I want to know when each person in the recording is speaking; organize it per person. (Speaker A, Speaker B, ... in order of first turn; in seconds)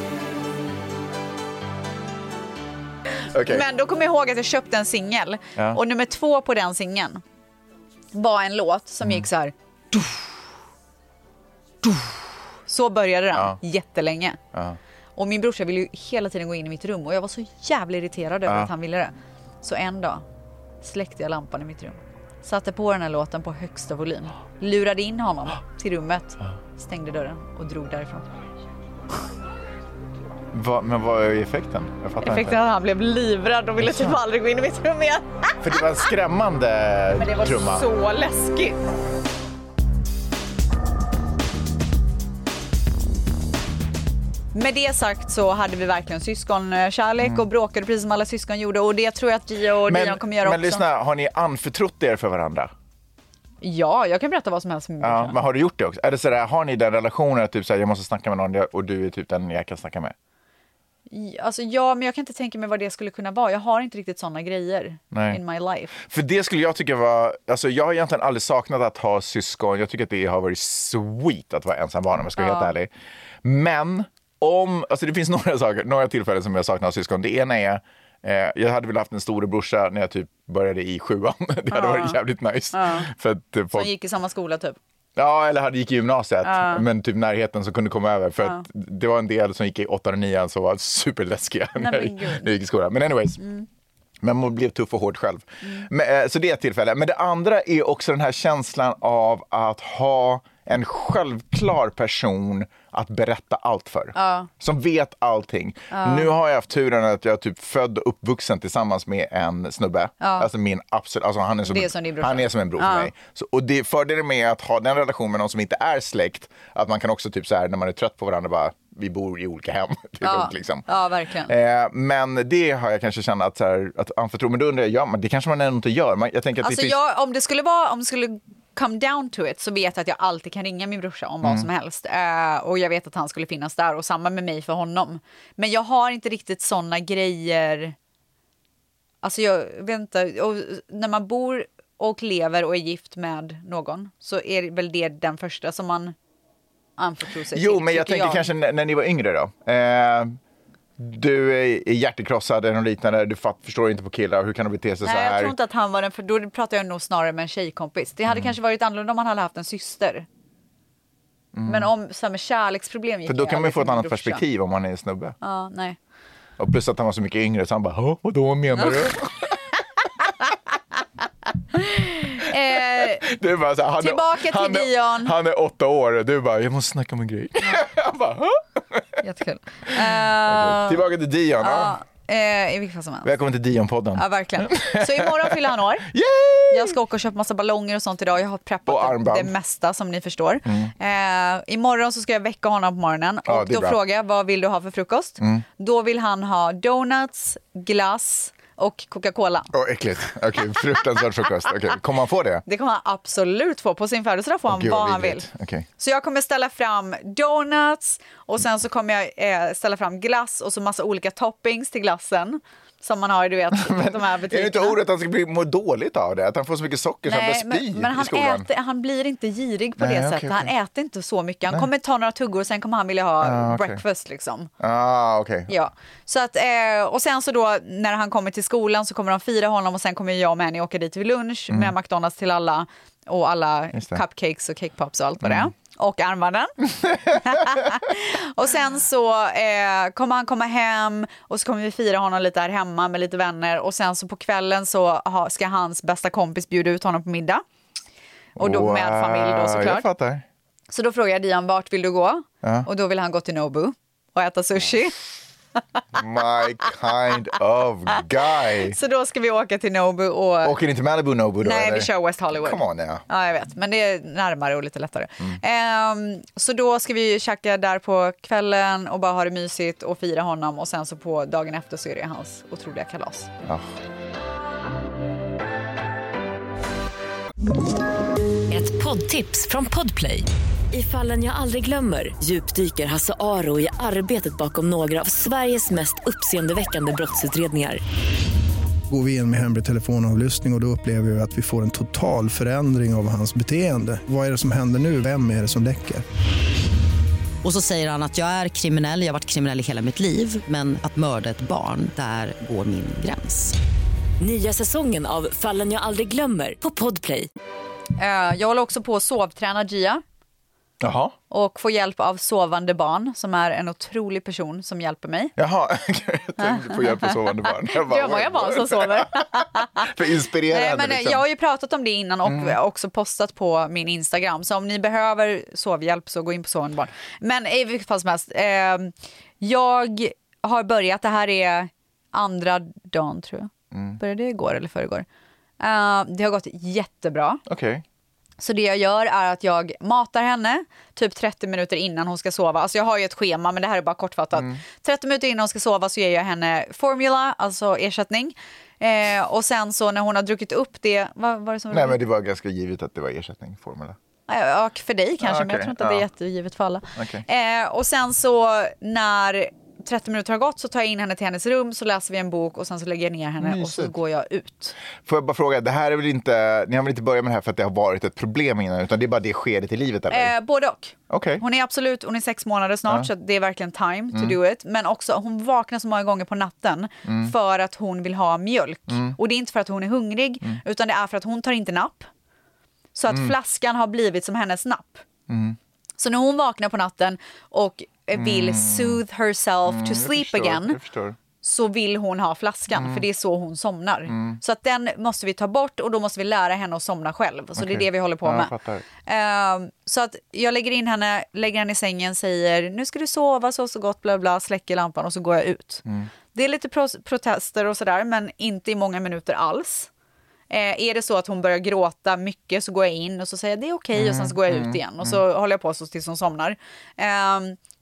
Speaker A: 3.3-3.6, 14.5-14.8, 18.5-18.7, 30.5-32.6, 33.8-34.2, 35.6-37.9, 47.2-47.5, 49.9-52.7, 55.0-60.1, 65.1-65.4, 66.0-72.9, 73.4-83.9, 85.2-93.4, 94.2-120.9, 121.5-127.0, 147.5-150.4, 151.0-155.6, 161.5-161.9, 163.3-165.4, 166.6-169.6, 172.7-179.2, 179.9-182.0, 183.2-187.0, 188.9-189.5, 190.7-190.9, 193.5-194.0, 199.7-202.7, 204.7-205.9, 213.7-218.7, 220.0-220.7, 223.4-224.0, 224.8-225.7, 233.9-234.2, 235.4-235.7, 237.0-237.6, 248.6-250.4, 252.6-252.9, 256.1-259.0, 260.6-263.2, 273.6-273.9, 311.0-311.4, 315.6-321.4, 322.4-322.8, 333.9-334.2, 337.7-338.0, 351.9-354.2, 355.4-356.3, 357.2-357.4, 363.6-364.1, 365.2-370.5, 371.3-371.6, 377.2-377.5, 379.1-379.4, 383.3-383.5, 385.5-385.8, 388.3-389.2, 389.9-391.4, 392.9-393.2, 394.3-394.6, 397.8-399.0, 414.1-415.4
Speaker B: 3.5-7.2, 8.1-10.2, 11.8-12.1, 12.7-14.4, 15.2-20.2, 20.8-28.3, 32.2-35.8, 37.2-38.8, 44.5-50.8, 53.6-55.4, 61.1-65.9, 72.4-72.7, 81.7-82.2, 82.7-83.1, 83.7-84.8, 86.4-86.8, 91.8-92.5, 93.4-93.7, 95.6-95.9, 104.2-104.5, 105.9-106.3, 110.2-110.5, 111.7-113.1, 120.2-121.5, 126.6-137.9, 139.2-146.2, 147.0-148.5, 155.0-160.3, 161.7-164.4, 165.4-166.0, 171.7-173.2, 174.0-175.3, 179.2-181.1, 181.6-183.3, 184.2-186.1, 186.7-199.7, 202.7-205.5, 206.0-215.0, 217.3-224.7, 225.7-247.6, 248.6-250.1, 250.9-255.2, 258.6-260.8, 261.6-273.5, 308.2-310.2, 311.5-315.6, 316.6-320.2, 320.7-335.3, 335.8-337.6, 338.6-352.2, 354.5-365.0, 370.3-382.3, 383.1-385.2, 386.2-391.0, 391.6-398.7, 399.2-410.1, 410.7-417.8
Speaker C: 278.7-288.0, 304.4-307.5
Speaker D: 289.1-296.2
Speaker E: 297.6-303.8